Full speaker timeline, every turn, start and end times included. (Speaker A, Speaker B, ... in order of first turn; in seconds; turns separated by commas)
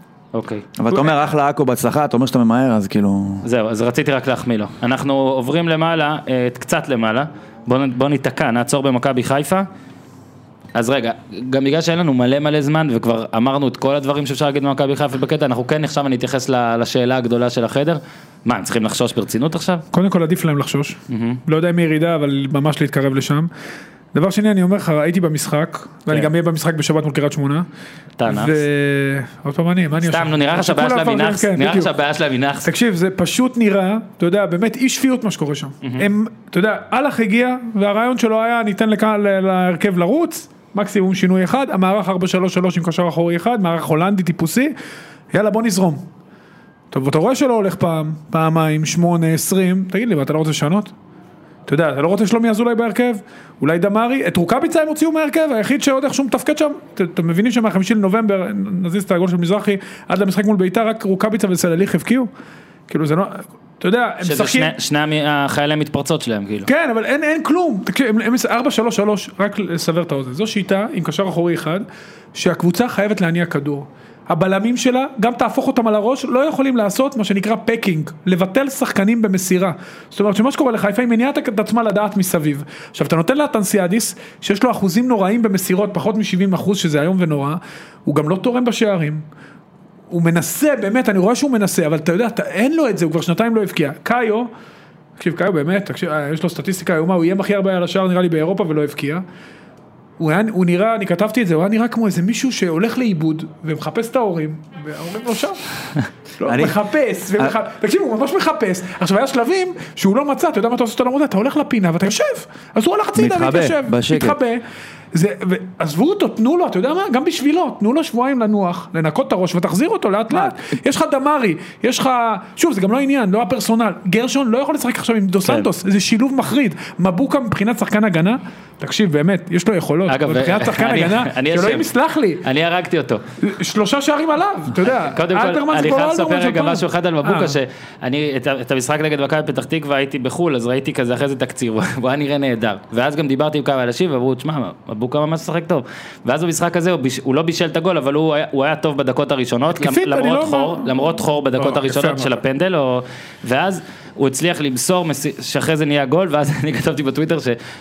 Speaker A: 0.3-0.7, Speaker B: 0.8-3.4, Speaker A: 3.4-9.7, Speaker A: 10.7-19.8, Speaker C: 19.9-23.5, Speaker A: 21.1-21.4, Speaker C: 24.1-27.7, Speaker A: 28.2-28.6, Speaker C: 28.2-31.9, Speaker A: 30.0-32.7, Speaker C: 32.6-44.7, Speaker A: 35.8-36.1, Speaker C: 45.3-46.0, Speaker C: 46.9-50.9, Speaker C: 51.7-62.3, Speaker C: 62.9-64.7, Speaker A: 64.2-66.7, Speaker C: 66.7-89.2, Speaker C: 90.1-94.5, Speaker C: 95.2-99.2, Speaker C: 100.2-114.6, Speaker B: 106.5-106.8, Speaker B: 113.1-114.4, Speaker C: 115.1-132.4, Speaker A: 130.1-131.9, Speaker A: 132.4-133.2, Speaker C: 133.4-137.6, Speaker A: 134.8-157.6, Speaker C: 149.8-152.3